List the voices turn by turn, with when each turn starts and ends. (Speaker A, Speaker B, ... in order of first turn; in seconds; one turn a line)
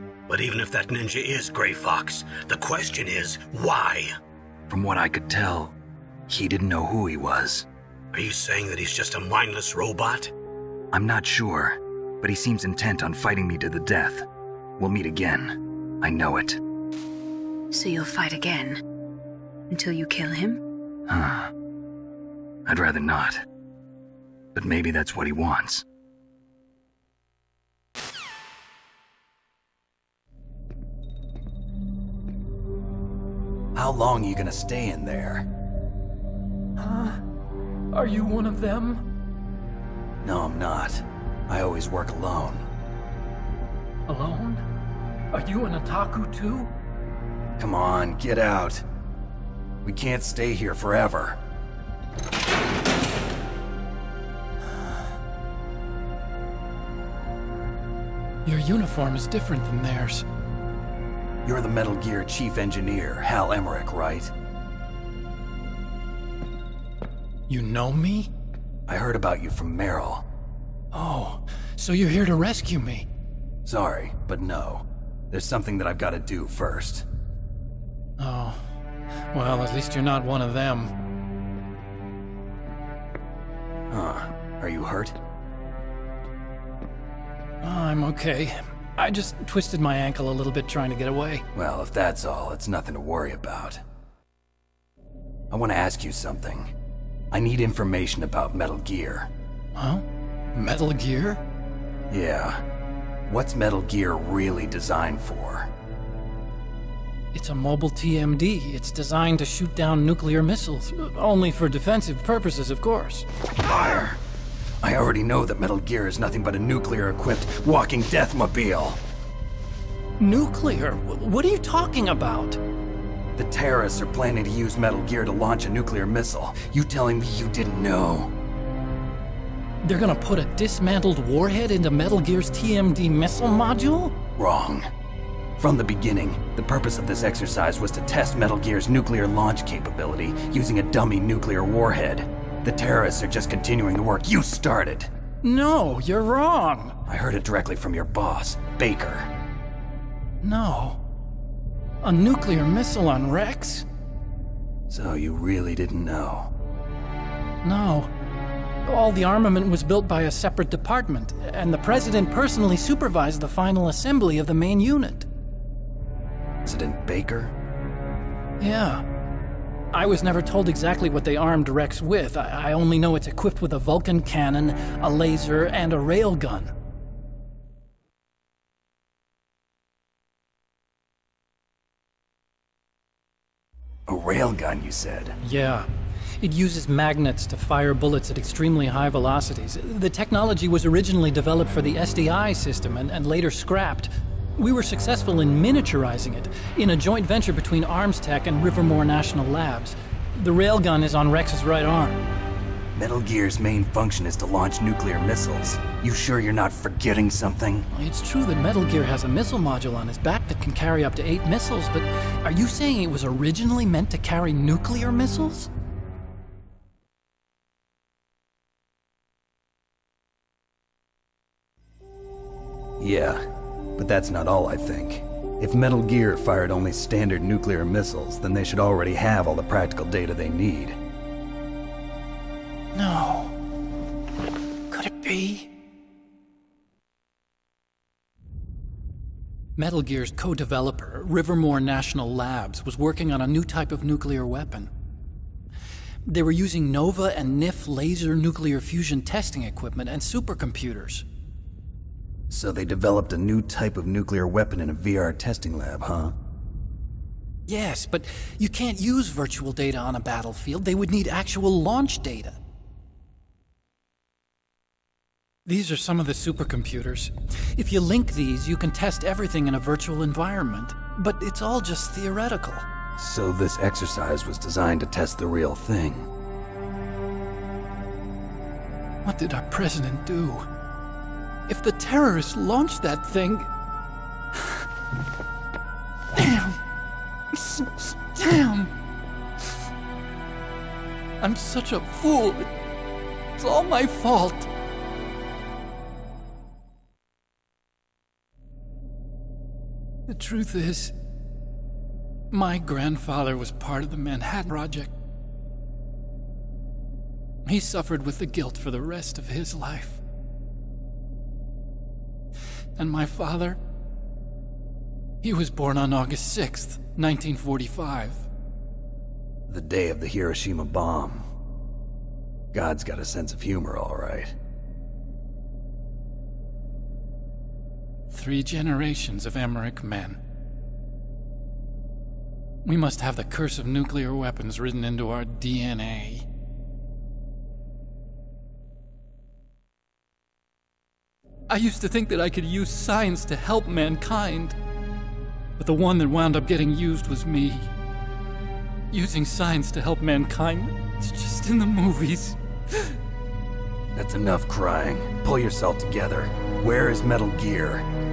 Speaker A: 0.3-4.1
Speaker B: 4.7-5.8
Speaker B: 6.3-7.7
Speaker A: 8.1-10.3
Speaker B: 10.9-14.3
Speaker B: 14.8-16.6
Speaker C: 17.7-18.8
Speaker C: 19.7-20.6
Speaker B: 21.1-21.5
Speaker B: 22.6-23.4
Speaker B: 24.5-25.8
Speaker B: 33.7-35.5
Speaker D: 36.8-37.2
Speaker D: 37.9-39.1
Speaker B: 40.2-42.7
Speaker D: 44.1-44.6
Speaker D: 45.3-46.7
Speaker B: 47.6-48.9
Speaker B: 49.8-51.4
Speaker D: 58.4-60.2
Speaker B: 61.4-64.3
Speaker D: 67.5-68.3
Speaker B: 68.9-70.2
Speaker D: 70.9-73.1
Speaker B: 73.6-77.0
Speaker D: 78.2-78.7
Speaker D: 79.3-80.9
Speaker B: 83.9-85.2
Speaker D: 87.6-91.4
Speaker B: 91.5-93.8
Speaker B: 95.5-96.7
Speaker B: 97.3-99.3
Speaker D: 99.7-101.4
Speaker B: 102.1-102.6
Speaker B: 103.2-105.7
Speaker D: 107.3-113.3
Speaker B: 113.6-114.2
Speaker B: 114.8-119.0
Speaker D: 120.2-122.6
Speaker B: 123.3-128.3
Speaker D: 129.8-134.2
Speaker B: 134.4-134.9
Speaker B: 135.6-145.1
Speaker D: 145.4-147.0
Speaker B: 147.1-149.3
Speaker D: 150.4-151.0
Speaker D: 152.0-153.9
Speaker B: 154.9-156.5
Speaker D: 157.6-158.1
Speaker D: 158.8-165.3
Speaker B: 166.6-167.5
Speaker D: 168.6-169.1
Speaker D: 169.9-176.7
Speaker B: 184.1-185.4
Speaker D: 185.4-185.9
Speaker D: 186.4-202.2
Speaker B: 202.9-207.9
Speaker D: 207.9-215.7
Speaker B: 223.0-231.0
Speaker D: 232.9-233.5
Speaker D: 234.9-235.7
Speaker D: 239.8-244.9
Speaker D: 246.3-251.2
Speaker B: 252.5-256.3
Speaker D: 257.7-262.6
Speaker D: 265.6-272.9
Speaker B: 273.2-276.3
Speaker D: 279.2-280.7
Speaker D: 281.7-283.7
Speaker D: 284.5-284.8
Speaker D: 286.3-286.8
Speaker D: 287.5-288.9
Speaker D: 291.4-292.7
Speaker D: 293.6-294.7
Speaker D: 300.3-301.1
Speaker D: 302.5-305.1
Speaker D: 307.6-310.2
Speaker D: 313.0-313.8
Speaker D: 315.4-318.5
Speaker B: 319.7-321.4
Speaker B: 322.7-324.6
Speaker D: 328.3-330.4
Speaker D: 332.8-336.5
Speaker D: 341.7-344.8
Speaker D: 345.8-347.9
Speaker D: 349.1-353.1
Speaker B: 354.1-358.1